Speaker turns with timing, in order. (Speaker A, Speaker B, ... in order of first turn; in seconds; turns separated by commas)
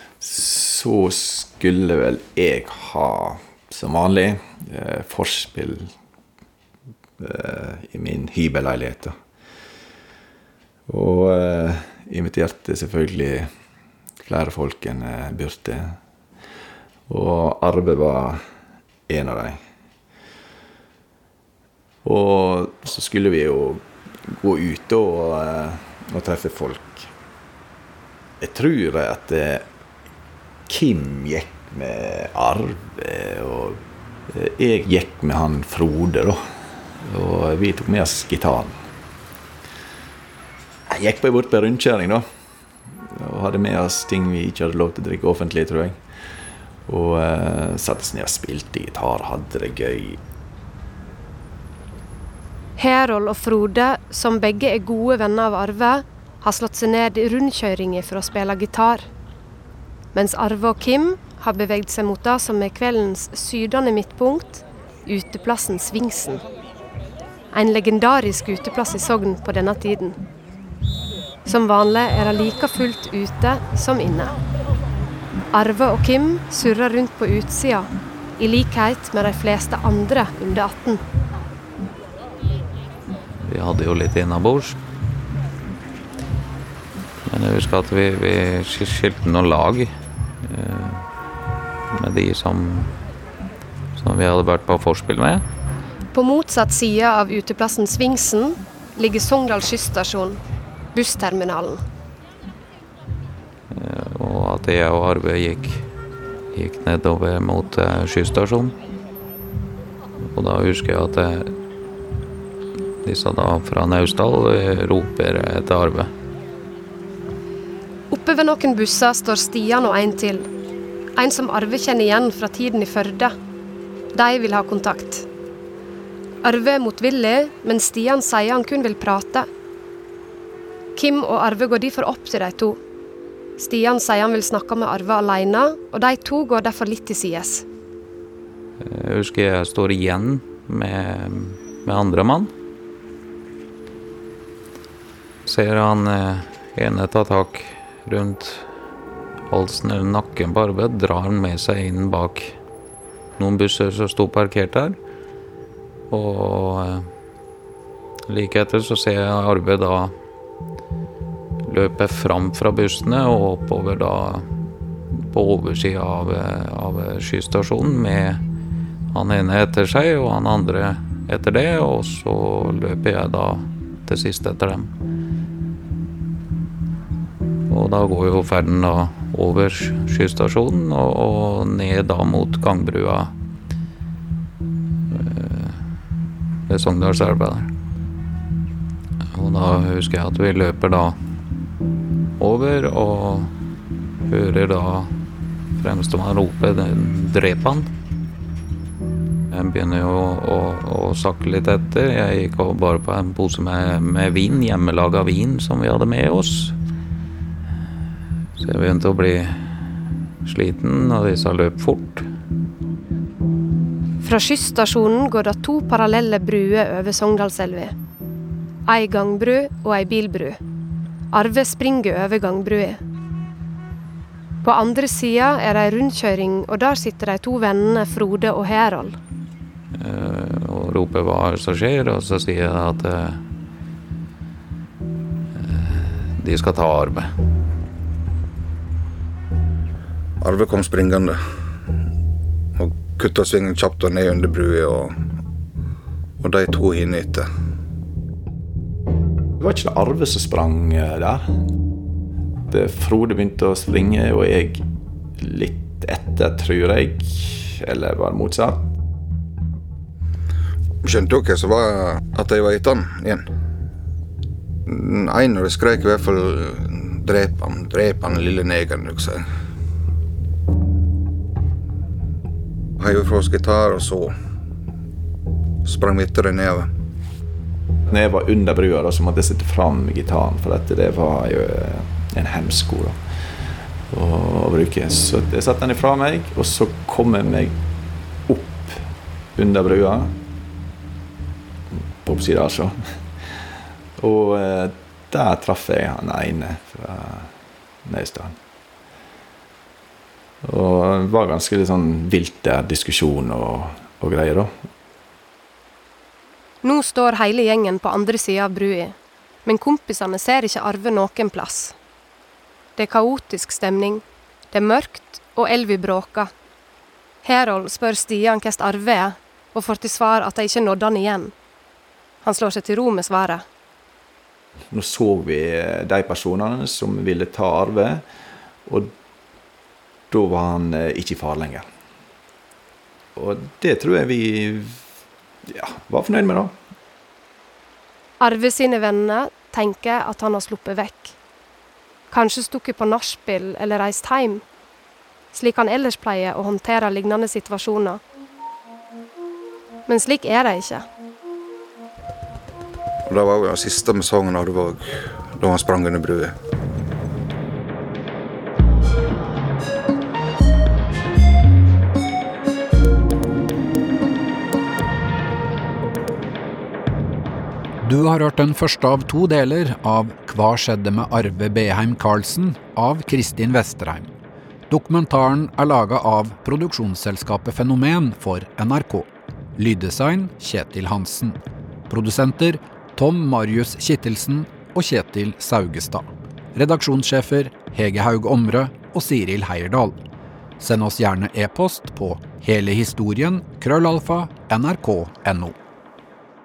Speaker A: 0.2-5.9, Speaker A: 7.2-9.2, Speaker A: 10.9-13.5, Speaker A: 14.2-16.0, Speaker A: 17.1-18.4, Speaker A: 19.1-19.6, Speaker A: 22.0-27.1, Speaker A: 28.4-29.7, Speaker A: 30.7-36.4, Speaker A: 37.0-38.8, Speaker A: 40.9-42.2, Speaker A: 43.1-46.0, Speaker A: 46.9-50.2, Speaker B: 52.8-59.0, Speaker B: 60.1-66.4, Speaker B: 67.5-70.2, Speaker B: 71.5-74.4, Speaker B: 75.5-81.0, Speaker C: 83.4-84.8, Speaker C: 87.3-91.1, Speaker C: 91.9-92.9, Speaker C: 93.9-95.4, Speaker B: 96.1-100.4, Speaker B: 100.9-101.8, Speaker C: 103.7-105.9, Speaker C: 106.5-108.7, Speaker C: 110.3-111.5, Speaker C: 113.0-116.1, Speaker B: 118.1-120.5, Speaker B: 121.2-123.3, Speaker B: 124.1-125.3, Speaker B: 126.4-129.5, Speaker B: 130.9-132.8, Speaker B: 133.6-137.6, Speaker C: 138.8-142.5, Speaker C: 145.4-148.7, Speaker C: 149.5-152.6, Speaker C: 153.4-154.9, Speaker C: 156.1-157.1, Speaker C: 158.3-160.1, Speaker C: 161.7-164.5, Speaker C: 165.2-168.4, Speaker C: 169.1-174.9, Speaker C: 177.7-183.3, Speaker C: 185.1-185.8, Speaker C: 186.7-187.7, Speaker C: 189.3-191.2, Speaker C: 192.4-193.5, Speaker C: 194.2-195.1, Speaker C: 195.8-197.9, Speaker C: 199.5-206.7, Speaker C: 208.6-209.7, Speaker C: 210.4-212.3, Speaker B: 214.2-217.9, Speaker B: 218.9-220.6, Speaker B: 221.3-223.0, Speaker B: 224.6-229.2, Speaker C: 229.9-233.4, Speaker C: 235.5-237.3, Speaker D: 240.4-241.4, Speaker D: 242.8-245.2, Speaker D: 246.4-247.5, Speaker A: 249.6-251.5, Speaker A: 252.7-254.8, Speaker A: 255.4-258.9, Speaker D: 261.0-263.4, Speaker D: 264.9-269.4, Speaker D: 273.0-274.3, Speaker D: 275.8-276.9, Speaker A: 278.1-283.2, Speaker A: 284.1-287.8, Speaker A: 288.5-290.3, Speaker A: 291.9-293.6, Speaker A: 294.2-297.5, Speaker A: 298.0-298.6, Speaker A: 300.6-304.9, Speaker B: 306.8-311.9, Speaker B: 313.0-316.5, Speaker B: 317.4-321.5, Speaker B: 322.4-323.6, Speaker A: 324.9-328.2, Speaker A: 328.9-329.1, Speaker A: 330.3-331.9, Speaker A: 333.4-335.0, Speaker A: 335.7-336.7, Speaker B: 338.4-341.4, Speaker B: 342.3-344.6, Speaker B: 345.5-348.2, Speaker B: 350.1-351.1, Speaker D: 353.3-356.5, Speaker E: 368.0-374.3, Speaker E: 374.9-390.2, Speaker E: 390.8-395.8